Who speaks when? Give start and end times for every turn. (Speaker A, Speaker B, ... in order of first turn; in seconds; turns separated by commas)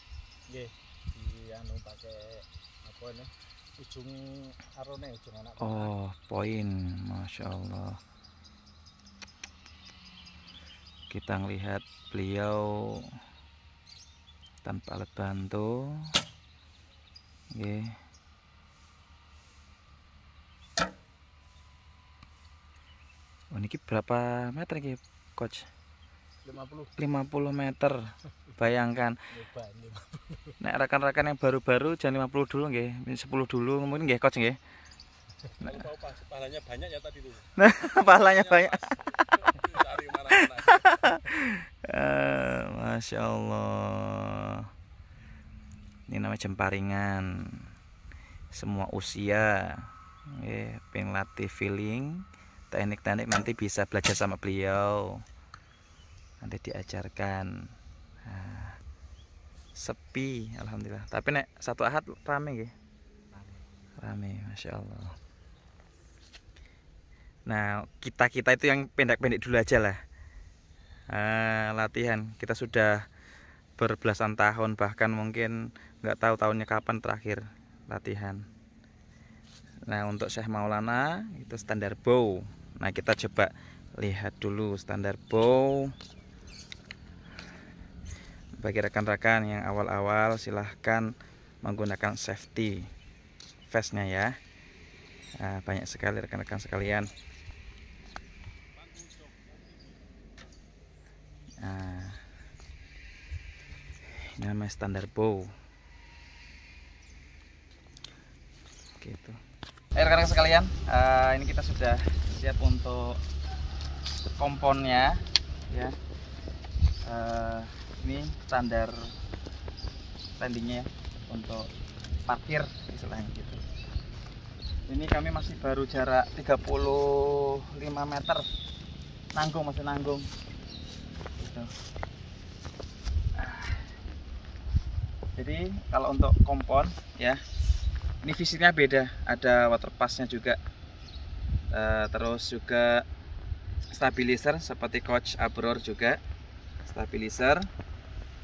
Speaker A: 0.5-5.9, Speaker B: 5.6-8.0, Speaker B: 11.1-13.1, Speaker B: 14.6-16.0, Speaker B: 17.5-17.9, Speaker B: 23.5-25.7, Speaker A: 26.4-26.9, Speaker B: 27.0-28.0, Speaker B: 28.6-29.2, Speaker A: 29.3-30.5, Speaker B: 30.6-34.6, Speaker C: 35.6-40.9, Speaker B: 37.6-38.8, Speaker B: 40.6-44.7, Speaker B: 46.1-47.7, Speaker B: 48.5-55.2, Speaker B: 56.4-57.7, Speaker B: 58.2-58.8, Speaker B: 59.8-62.7, Speaker B: 64.0-65.1, Speaker B: 67.5-70.0, Speaker B: 71.1-73.0, Speaker B: 73.8-78.4, Speaker B: 79.9-85.9, Speaker B: 88.6-91.1, Speaker B: 91.6-92.9, Speaker B: 93.7-94.3, Speaker B: 95.4-97.1, Speaker A: 99.1-99.5, Speaker B: 101.6-102.2, Speaker B: 104.4-105.5, Speaker B: 109.0-109.4, Speaker B: 109.9-113.2, Speaker B: 114.4-116.0, Speaker B: 117.0-119.0, Speaker B: 120.4-121.7, Speaker B: 122.2-123.6, Speaker B: 124.9-128.4, Speaker B: 129.3-130.3, Speaker B: 131.4-131.7, Speaker B: 133.3-133.9, Speaker B: 135.4-137.4, Speaker B: 138.2-140.6, Speaker B: 141.7-143.0, Speaker B: 143.9-146.2, Speaker B: 146.8-147.7